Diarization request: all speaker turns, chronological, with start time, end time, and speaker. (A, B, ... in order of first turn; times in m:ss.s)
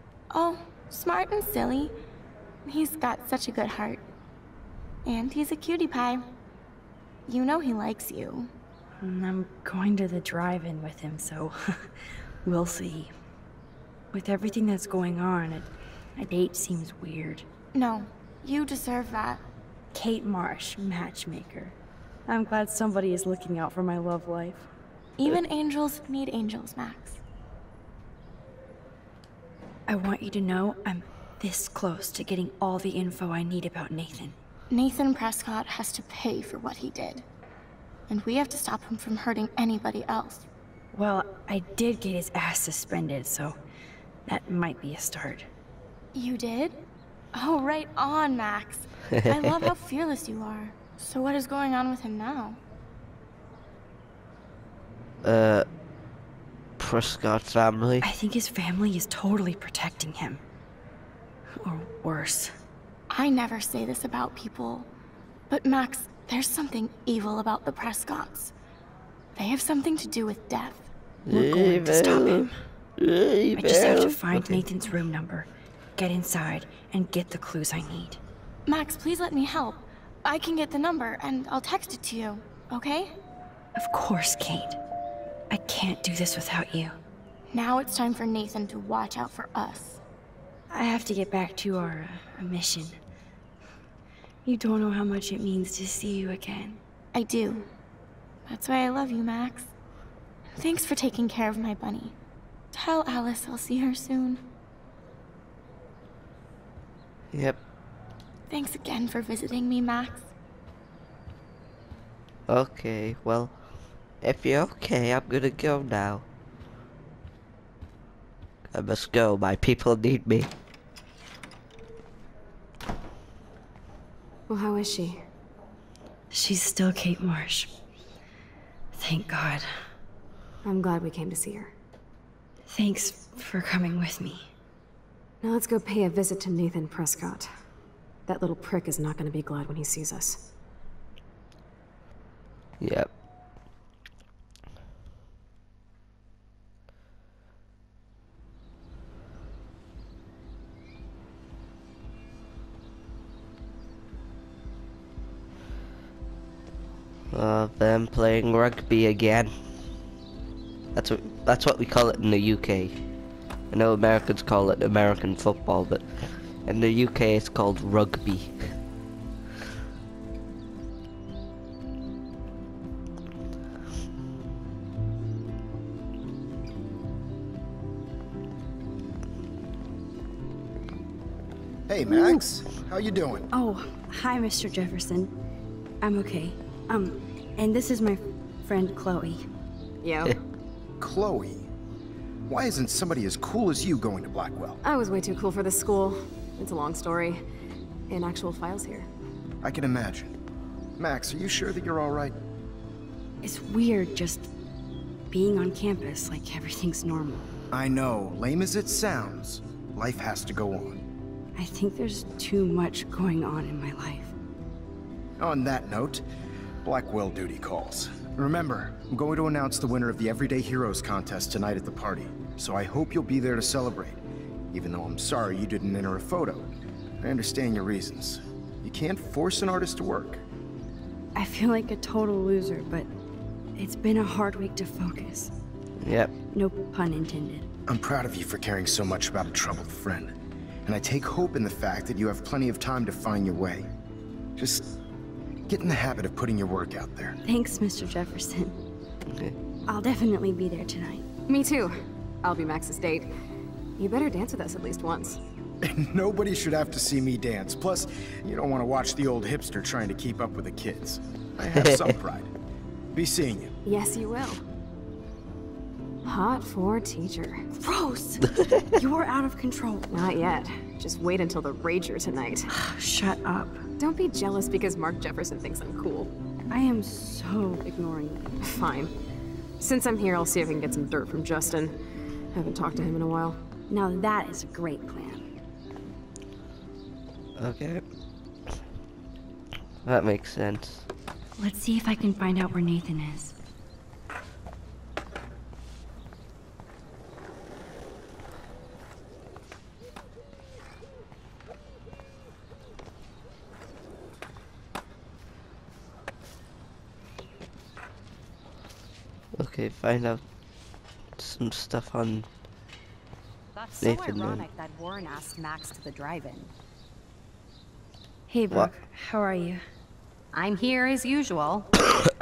0:00.3-0:01.9 A
0:02.6-0:04.0 A
0:05.0-0:06.2 A
0:07.3-0:08.5 A
0:09.0-0:13.1 B
0:14.1-0:17.4 B
0:17.7-0:19.4 A
0:19.9-0:21.7 B
0:22.3-0:24.7 B
0:25.2-0:27.2 A
0:29.9-0:34.4 B
0:34.7-0:37.2 A
0:38.1-0:40.5 A
0:40.9-0:43.6 B
0:44.2-0:45.5 B
0:46.1-0:46.8 A
0:47.3-0:52.6 A
0:49.2-0:49.7 C
0:55.2-0:55.6 C
0:56.8-0:58.1 C
0:58.0-1:00.4 B
1:01.6-1:02.5 B
1:03.1-1:04.9 A
1:05.5-1:08.5 A
1:09.3-1:10.9 A
1:11.2-1:12.4 C
1:11.3-1:12.6 B
1:13.0-1:14.6 C
1:13.5-1:18.2 B
1:18.7-1:23.1 A
1:23.8-1:24.8 B
1:25.5-1:26.9 B
1:27.5-1:30.0 A
1:30.7-1:33.0 B
1:34.4-1:36.8 B
1:37.1-1:37.7 A
1:38.4-1:39.7 A
1:40.5-1:42.1 A
1:42.7-1:44.4 A
1:47.3-1:47.6 C
1:48.5-1:50.3 A
1:52.5-1:53.6 C
1:54.2-1:56.2 C
1:58.7-2:00.5 C
2:04.5-2:05.2 D
2:06.3-2:07.7 B
2:08.9-2:09.7 B
2:10.6-2:11.7 D
2:12.7-2:14.5 B
2:15.4-2:17.5 D
2:18.3-2:20.4 D
2:22.8-2:23.1 C
2:37.3-2:39.5 C
2:40.9-2:43.0 C
2:43.7-2:48.7 C
3:01.9-3:03.5 E
3:02.1-3:02.4 B
3:03.5-3:05.3 B
3:06.0-3:09.4 B
3:10.0-3:10.4 D
3:11.0-3:11.7 E
3:12.5-3:14.8 E
3:14.8-3:17.4 D
3:18.1-3:19.1 D
3:19.6-3:20.4 E
3:21.0-3:22.4 E
3:23.4-3:24.5 B
3:25.3-3:27.5 B
3:27.7-3:31.0 E
3:31.6-3:34.3 B
3:35.4-3:36.2 E
3:36.8-3:44.2 E
3:44.7-3:50.4 E
3:51.3-3:53.1 B
3:53.8-3:55.5 B
3:56.0-3:56.3 C
3:56.5-3:57.7 B
3:57.9-4:00.3 E
4:00.8-4:03.9 E
4:04.6-4:04.9 E
4:05.7-4:07.4 E
4:07.4-4:08.8 B
4:09.3-4:09.5 C
4:09.9-4:11.2 B
4:11.5-4:13.3 D
4:14.0-4:15.4 D
4:15.8-4:22.5 E
4:21.7-4:22.1 C
4:23.1-4:23.8 E
4:23.8-4:24.6 D
4:26.2-4:27.6 D
4:27.7-4:30.2 B
4:30.1-4:32.7 D
4:32.7-4:33.8 B
4:34.0-4:36.3 D
4:36.7-4:38.7 B
4:38.6-4:39.1 D
4:39.8-4:41.9 D
4:42.5-4:43.6 D
4:43.9-4:45.5 B
4:47.6-4:48.0 C
4:50.0-4:51.0 C
4:51.6-4:53.6 B
5:09.6-5:10.4 C
5:11.4-5:12.5 C
5:13.7-5:16.7 F
5:14.0-5:14.6 C
5:18.5-5:19.8 B
5:20.5-5:21.9 F